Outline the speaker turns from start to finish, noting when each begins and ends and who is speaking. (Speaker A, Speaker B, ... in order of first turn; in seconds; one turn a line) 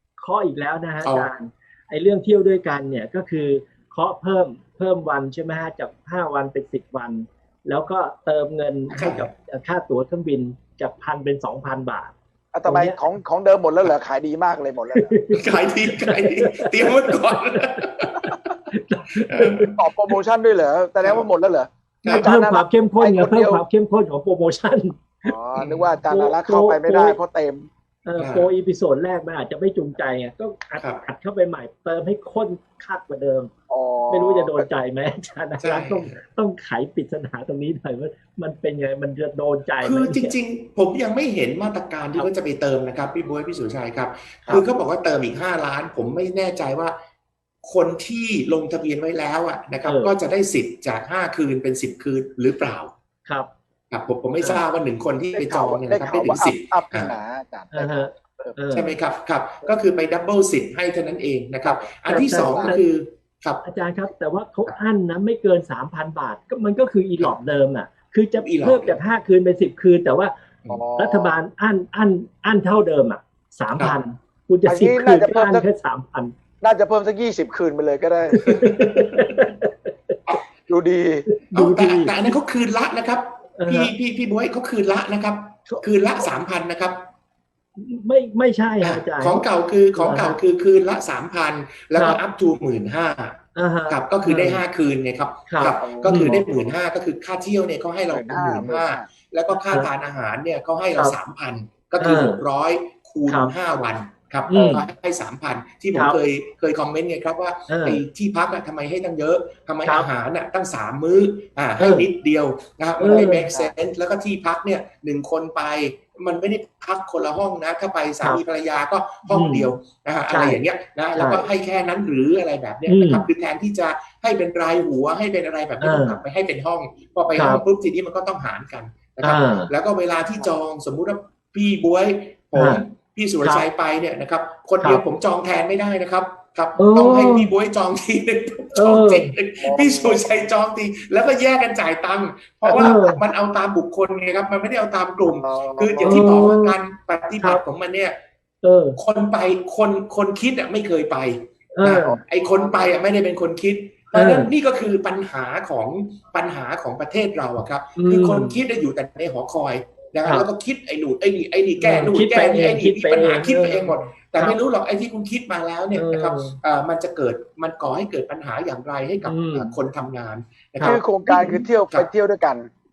Speaker A: 0.2-12.1
Speaker B: 1.0-1.3
Speaker B: 8.9-9.3
Speaker C: 12.5-15.1
Speaker A: 12.6-13.0
Speaker A: 14.9-17.6
Speaker B: 15.3-18.3
Speaker A: 18.2-19.7
Speaker B: 19.2-19.7
Speaker C: 19.8-23.6
Speaker B: 22.0-22.3
Speaker A: 22.1-25.3
Speaker C: 25.2-27.7
Speaker B: 25.6-26.0
Speaker A: 26.1-27.2
Speaker A: 28.0-33.5
Speaker B: 28.2-28.5
Speaker B: 30.8-31.0
Speaker C: 33.7-34.7
Speaker A: 34.1-40.3
Speaker B: 35.6-36.1
Speaker B: 39.8-47.0
Speaker B: 47.6-52.9
Speaker A: 49.8-50.1
Speaker B: 53.9-57.1
Speaker C: 55.3-58.6
Speaker A: 57.7-59.0
Speaker B: 58.7-63.6
Speaker C: 61.6-62.8
Speaker A: 62.0-62.8
Speaker A: 63.6-70.3
Speaker B: 68.3-69.0
Speaker C: 70.7-71.4
Speaker A: 71.0-76.3
Speaker C: 74.7-75.7
Speaker C: 76.6-78.4
Speaker A: 78.3-79.7
Speaker B: 78.4-79.5
Speaker C: 80.7-81.2
Speaker A: 81.3-82.3
Speaker B: 81.5-87.0
Speaker A: 83.6-83.9
Speaker A: 87.8-90.4
Speaker B: 88.8-148.2
Speaker A: 91.9-92.2
Speaker A: 93.5-94.6
Speaker A: 95.5-96.4
Speaker C: 95.8-96.8
Speaker C: 98.1-99.1
Speaker A: 102.0-102.4
Speaker A: 103.3-103.5
Speaker A: 104.5-104.9
Speaker A: 105.9-106.2
Speaker A: 107.7-108.0
Speaker A: 109.8-110.1
Speaker A: 111.8-112.1
Speaker A: 113.0-113.5
Speaker C: 113.0-113.7
Speaker A: 119.3-119.7
Speaker A: 120.3-120.6
Speaker A: 121.2-121.5
Speaker A: 122.8-123.2
Speaker A: 125.8-126.2
Speaker A: 127.3-127.6
Speaker A: 129.2-129.7
Speaker A: 132.5-132.8
Speaker A: 133.4-133.7
Speaker A: 136.8-137.5
Speaker A: 138.7-139.3
Speaker C: 139.6-140.2
Speaker C: 142.6-142.9
Speaker A: 142.7-143.2
Speaker C: 145.2-146.3
Speaker A: 146.0-146.8
Speaker A: 147.4-147.6
Speaker A: 148.6-149.0
Speaker B: 149.0-172.1
Speaker A: 151.7-152.2
Speaker C: 152.0-152.7
Speaker A: 154.1-154.5
Speaker A: 157.9-158.6
Speaker A: 161.8-164.6
Speaker A: 165.9-166.6
Speaker A: 169.2-169.8
Speaker A: 170.8-171.7
Speaker C: 170.8-172.7